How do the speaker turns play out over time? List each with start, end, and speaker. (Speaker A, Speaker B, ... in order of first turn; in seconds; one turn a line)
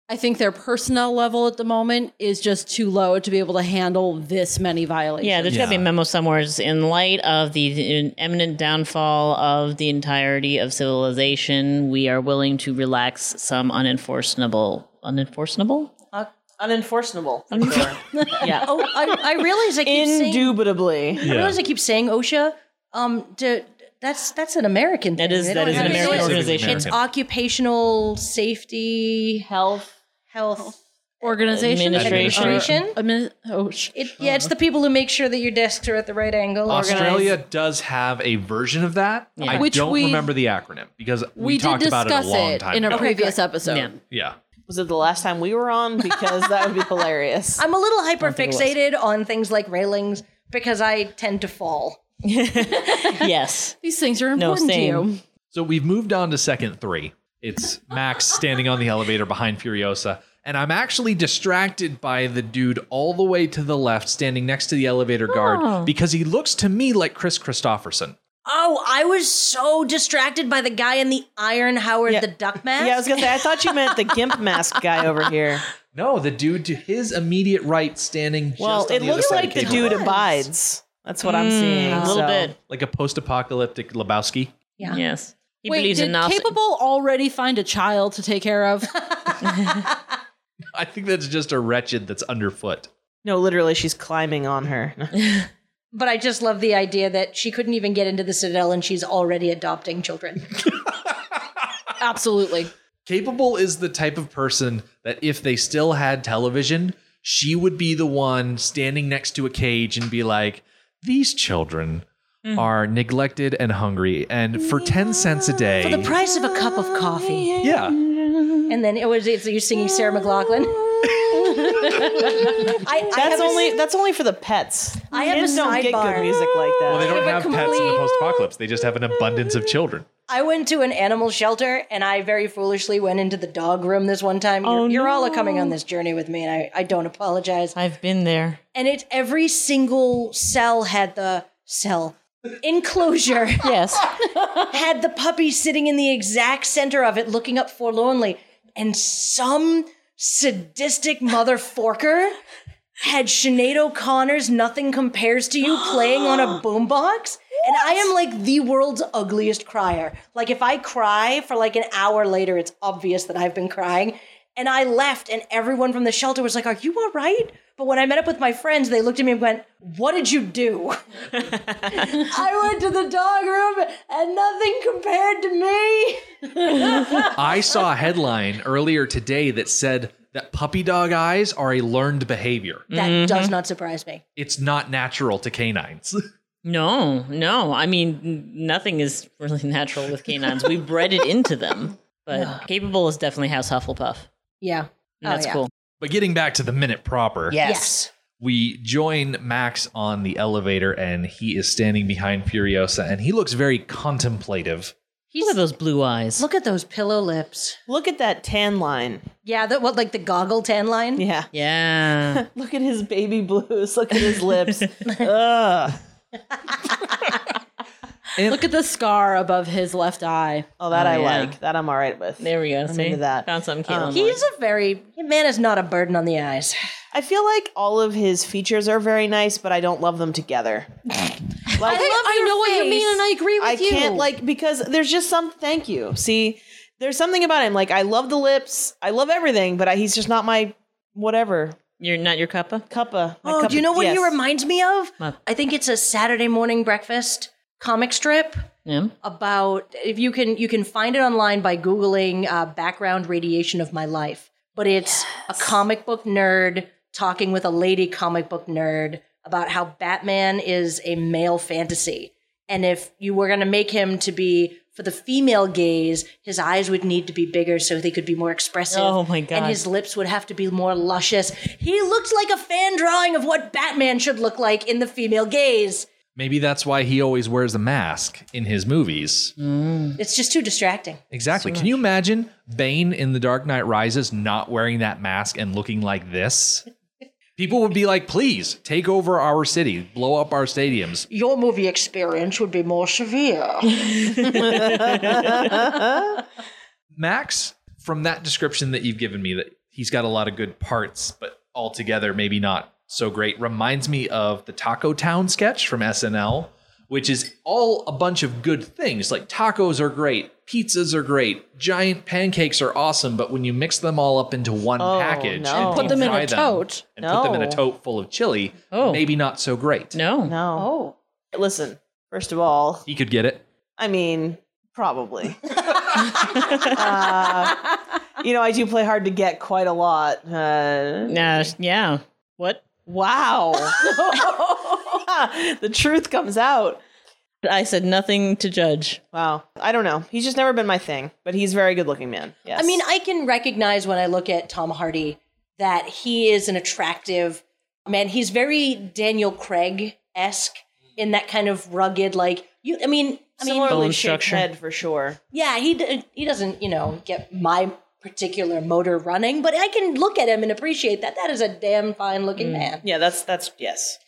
Speaker A: 0.1-5.8
Speaker B: 5.2-15.9
Speaker C: 5.5-5.8
Speaker D: 16.6-21.2
Speaker B: 17.5-18.6
Speaker A: 18.1-18.6
Speaker E: 18.5-20.6
Speaker E: 21.2-29.5
Speaker C: 21.2-21.6
Speaker B: 25.2-26.9
Speaker C: 25.6-27.0
Speaker D: 29.5-29.9
Speaker E: 30.3-33.0
Speaker A: 31.2-33.9
Speaker B: 31.5-32.7
Speaker C: 32.0-32.7
Speaker E: 33.9-37.4
Speaker C: 36.7-43.1
Speaker D: 36.7-37.3
Speaker B: 39.4-39.7
Speaker A: 39.5-40.3
Speaker A: 41.4-44.0
Speaker B: 43.6-43.9
Speaker C: 44.1-44.4
Speaker D: 44.7-47.6
Speaker E: 47.6-52.0
Speaker B: 48.2-48.7
Speaker B: 52.2-53.8
Speaker A: 53.8-55.2
Speaker B: 54.3-55.1
Speaker C: 55.5-68.2
Speaker B: 65.3-65.9
Speaker E: 68.5-73.4
Speaker D: 72.8-75.6
Speaker C: 75.9-80.1
Speaker D: 78.6-82.5
Speaker E: 79.1-80.3
Speaker B: 81.2-82.6
Speaker E: 81.9-82.2
Speaker C: 82.7-84.5
Speaker B: 84.8-86.6
Speaker A: 85.7-89.0
Speaker E: 89.3-89.9
Speaker C: 90.7-92.9
Speaker D: 93.2-95.2
Speaker E: 95.9-100.8
Speaker A: 102.0-102.7
Speaker C: 103.1-116.1
Speaker B: 112.4-112.7
Speaker E: 115.8-117.6
Speaker D: 116.2-117.2
Speaker C: 117.6-118.0
Speaker B: 117.8-118.7
Speaker E: 118.7-123.8
Speaker D: 119.8-122.2
Speaker D: 123.1-127.3
Speaker E: 125.1-128.5
Speaker B: 125.4-125.9
Speaker C: 126.9-130.1
Speaker E: 130.3-137.8
Speaker B: 134.6-135.8
Speaker B: 137.8-138.6
Speaker E: 138.7-152.4
Speaker B: 143.6-144.2
Speaker E: 153.0-177.6
Speaker C: 177.1-182.9
Speaker B: 182.9-183.6
Speaker E: 182.9-184.2
Speaker C: 184.4-186.2
Speaker B: 186.6-194.3
Speaker E: 192.3-192.6
Speaker E: 194.6-195.6
Speaker B: 195.2-195.7
Speaker C: 196.0-197.6
Speaker B: 197.5-197.9
Speaker E: 197.6-198.1
Speaker C: 198.4-204.9
Speaker E: 205.3-205.6
Speaker B: 205.4-206.5
Speaker E: 206.4-207.8
Speaker D: 207.9-209.3
Speaker E: 209.4-211.3
Speaker D: 211.2-211.5
Speaker B: 211.5-212.4
Speaker D: 212.3-216.0
Speaker B: 214.3-214.9
Speaker E: 216.7-217.0
Speaker C: 218.4-218.7
Speaker A: 218.5-220.7
Speaker D: 220.8-224.2
Speaker B: 220.9-221.6
Speaker B: 222.4-224.4
Speaker E: 224.1-226.8
Speaker D: 227.1-232.1
Speaker A: 231.8-234.3
Speaker E: 231.8-233.3
Speaker D: 233.6-241.8
Speaker B: 242.0-242.9
Speaker D: 242.9-244.4
Speaker E: 243.4-248.7
Speaker B: 248.9-249.1
Speaker E: 249.2-276.1
Speaker B: 268.9-269.8
Speaker C: 276.4-279.5
Speaker B: 279.6-280.2
Speaker E: 280.2-281.2
Speaker C: 281.3-286.9
Speaker B: 281.6-281.9
Speaker C: 287.6-291.3
Speaker E: 291.3-295.7
Speaker B: 294.0-295.8
Speaker D: 294.6-296.3
Speaker C: 297.2-320.2
Speaker D: 315.0-316.4
Speaker A: 315.8-317.0
Speaker B: 315.9-316.3
Speaker D: 317.2-317.8
Speaker B: 318.9-319.2
Speaker B: 320.1-320.6
Speaker D: 320.5-320.9
Speaker E: 320.8-321.1
Speaker D: 321.5-323.1
Speaker C: 323.1-323.6
Speaker D: 324.0-331.7
Speaker B: 326.2-327.0
Speaker B: 331.3-332.9
Speaker D: 333.1-334.1
Speaker E: 334.0-335.0
Speaker D: 335.0-337.0
Speaker B: 337.6-339.2
Speaker D: 339.3-343.0
Speaker E: 342.8-354.1
Speaker D: 353.6-355.4
Speaker B: 353.9-354.7
Speaker E: 355.5-363.0
Speaker B: 362.6-362.9
Speaker D: 363.0-364.2